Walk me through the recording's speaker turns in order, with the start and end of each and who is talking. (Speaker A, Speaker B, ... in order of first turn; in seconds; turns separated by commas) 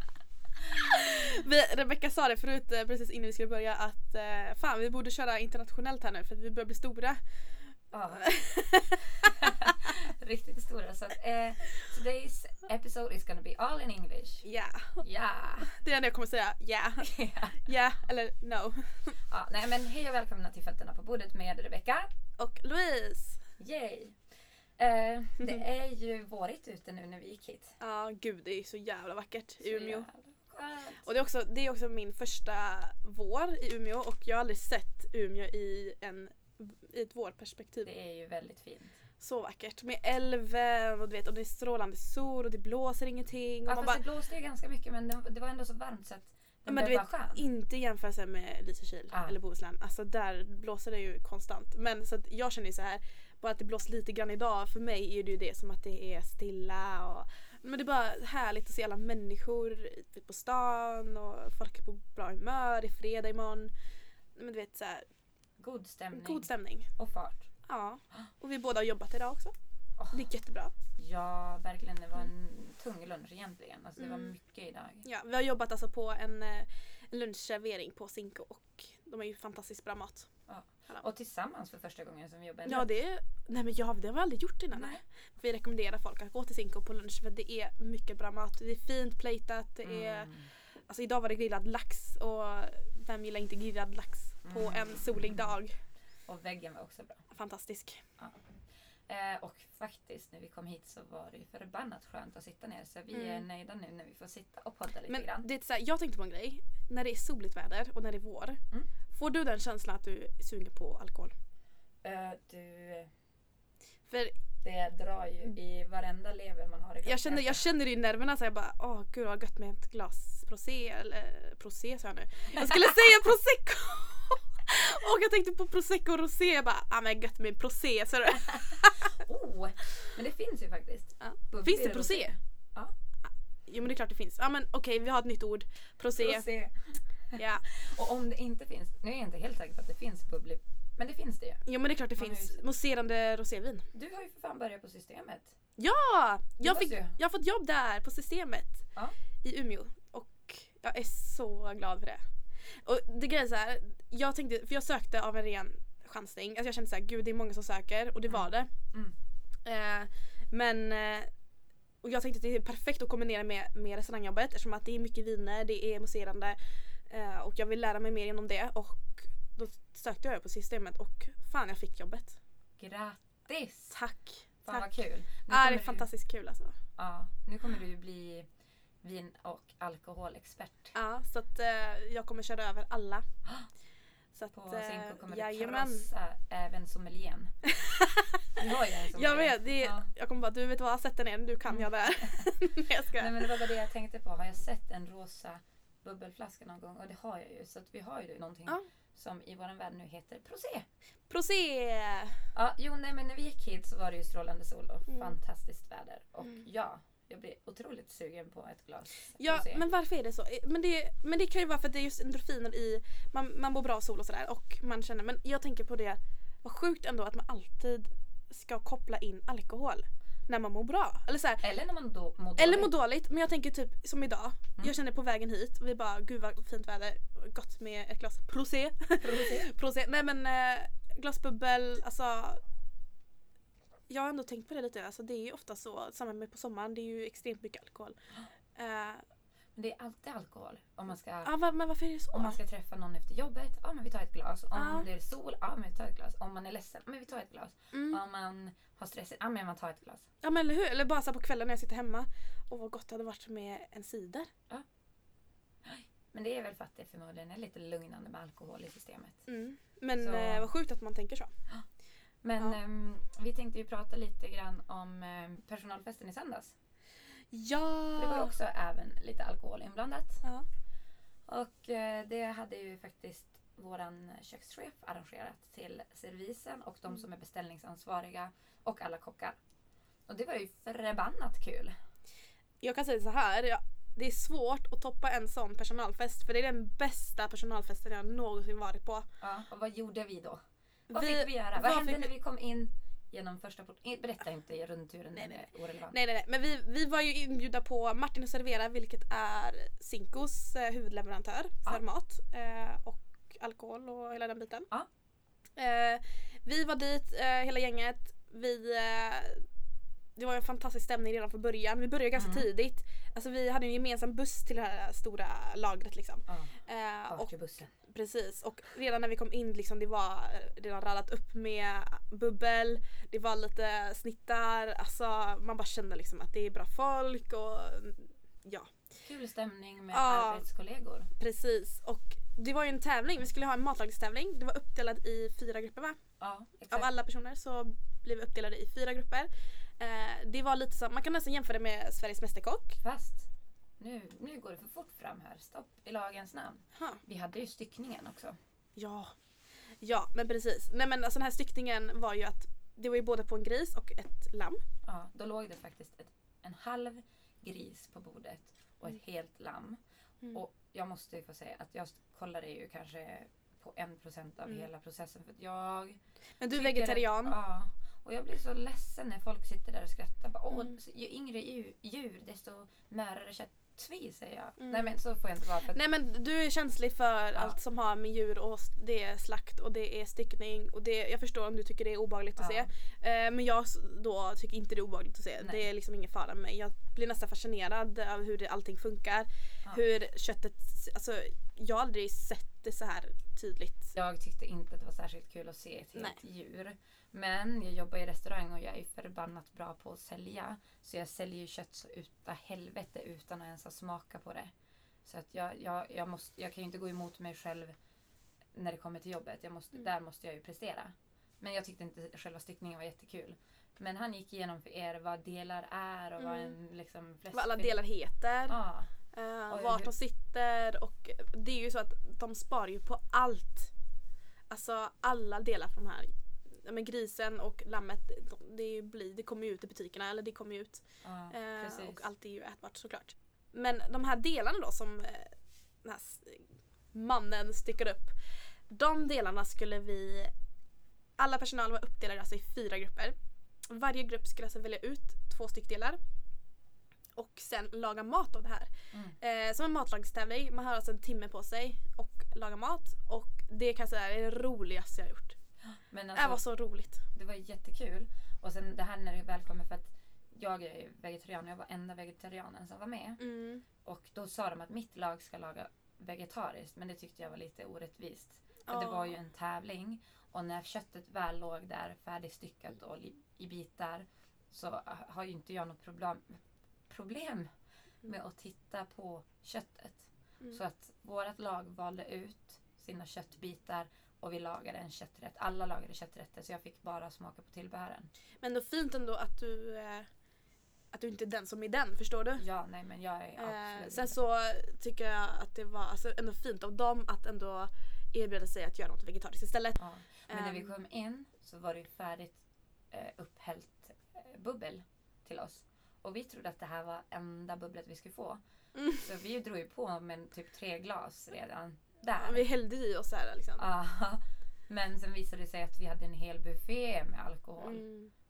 Speaker A: 0.7-7.2, Speaker B: 7.9-8.3, Speaker A: 8.1-9.7, Speaker B: 9.2-14.4, Speaker A: 14.4-15.0, Speaker B: 15.0-15.7, Speaker A: 15.6-19.1, Speaker B: 17.0-17.7, Speaker B: 19.3-22.1, Speaker A: 22.4-23.4, Speaker B: 23.6-24.2, Speaker B: 24.8-27.8, Speaker A: 27.8-30.1, Speaker B: 29.6-31.0, Speaker A: 31.0-37.9, Speaker B: 37.8-39.0, Speaker A: 39.2-44.0, Speaker B: 43.6-47.5, Speaker A: 46.7-63.7, Speaker B: 49.1-49.4, Speaker A: 64.3-65.1, Speaker B: 65.6-67.5, Speaker A: 66.1-66.9, Speaker A: 67.7-69.5, Speaker B: 70.0-70.3, Speaker A: 70.1-70.7, Speaker B: 71.0-75.1, Speaker A: 74.0-74.3, Speaker A: 75.0-80.3, Speaker B: 80.5-82.9, Speaker A: 82.7-90.3, Speaker B: 84.7-85.0, Speaker B: 89.8-90.5, Speaker A: 90.9-95.8, Speaker B: 94.4-95.5, Speaker B: 96.3-97.2, Speaker A: 97.3-98.0, Speaker B: 99.1-105.5, Speaker A: 103.1-103.5, Speaker A: 105.1-108.6, Speaker A: 109.1-111.3, Speaker B: 112.0-113.1, Speaker A: 114.1-114.4, Speaker B: 114.6-117.7, Speaker A: 117.0-129.1, Speaker B: 128.4-132.9, Speaker A: 131.2-132.3, Speaker A: 133.7-136.4, Speaker B: 136.2-141.6, Speaker A: 137.3-137.6, Speaker A: 141.7-143.9, Speaker B: 142.2-142.6, Speaker B: 143.9-145.6, Speaker A: 145.8-148.8, Speaker B: 146.6-147.2, Speaker A: 149.4-152.2, Speaker A: 152.8-158.7, Speaker B: 158.3-159.2, Speaker A: 159.7-161.3, Speaker A: 162.0-166.6, Speaker A: 167.1-172.4, Speaker B: 172.8-174.0, Speaker A: 173.9-175.0, Speaker B: 174.7-176.1, Speaker A: 175.5-176.8, Speaker B: 177.0-178.5, Speaker B: 179.0-180.9, Speaker A: 180.9-183.2, Speaker A: 184.3-186.1, Speaker B: 184.5-187.5, Speaker A: 187.7-188.5, Speaker B: 188.6-190.1, Speaker A: 189.1-193.7, Speaker B: 191.7-192.5, Speaker B: 193.2-200.9, Speaker A: 201.3-202.4, Speaker B: 202.6-209.8, Speaker A: 205.1-205.4, Speaker A: 209.4-221.6, Speaker B: 221.6-222.9, Speaker A: 222.6-232.6, Speaker B: 229.2-229.7, Speaker A: 234.1-238.2, Speaker A: 238.8-239.2, Speaker B: 239.8-241.5, Speaker A: 241.4-242.6, Speaker B: 242.3-250.3, Speaker A: 244.7-245.1, Speaker A: 247.9-248.2, Speaker A: 250.4-254.5, Speaker B: 255.8-259.4, Speaker A: 259.5-261.5, Speaker B: 260.2-260.7, Speaker B: 262.4-266.7, Speaker A: 267.5-268.5, Speaker B: 268.2-270.4, Speaker B: 271.5-279.6, Speaker B: 280.3-281.9, Speaker A: 282.8-289.2, Speaker B: 289.4-296.2, Speaker A: 291.1-292.3, Speaker A: 295.4-304.9, Speaker A: 305.8-309.6, Speaker A: 310.4-317.5, Speaker B: 312.4-312.7, Speaker B: 316.5-317.9, Speaker A: 318.0-328.9, Speaker B: 329.2-331.3, Speaker A: 330.1-330.6, Speaker A: 331.4-336.2, Speaker B: 336.4-337.1, Speaker A: 336.9-343.0, Speaker B: 343.0-343.5, Speaker B: 344.0-348.6, Speaker A: 346.9-347.2, Speaker A: 348.9-349.3, Speaker A: 350.0-354.8, Speaker B: 355.1-360.0, Speaker B: 360.5-366.2, Speaker A: 366.6-367.6, Speaker B: 366.7-376.0, Speaker A: 374.8-375.1, Speaker A: 375.9-394.1, Speaker B: 382.6-382.9, Speaker B: 394.1-404.7, Speaker A: 396.1-396.4, Speaker B: 405.2-407.9, Speaker B: 408.7-418.0, Speaker A: 416.4-416.8, Speaker A: 417.5-418.8, Speaker B: 418.7-419.1, Speaker A: 419.3-423.9, Speaker B: 419.7-420.1, Speaker A: 424.7-438.3, Speaker B: 431.2-432.2, Speaker A: 438.9-440.5, Speaker A: 441.4-443.4, Speaker A: 443.9-446.2, Speaker A: 447.3-455.6, Speaker B: 455.9-456.6, Speaker A: 456.4-457.2, Speaker B: 457.3-463.4, Speaker A: 463.4-463.8, Speaker B: 464.0-477.7, Speaker A: 468.9-469.4, Speaker B: 478.2-488.3, Speaker A: 488.6-490.3, Speaker A: 491.1-492.6, Speaker B: 492.6-494.4, Speaker A: 493.6-500.9, Speaker B: 500.0-508.6, Speaker A: 508.9-509.2, Speaker B: 509.1-512.6, Speaker A: 512.4-513.8, Speaker B: 513.8-518.0, Speaker A: 517.8-518.3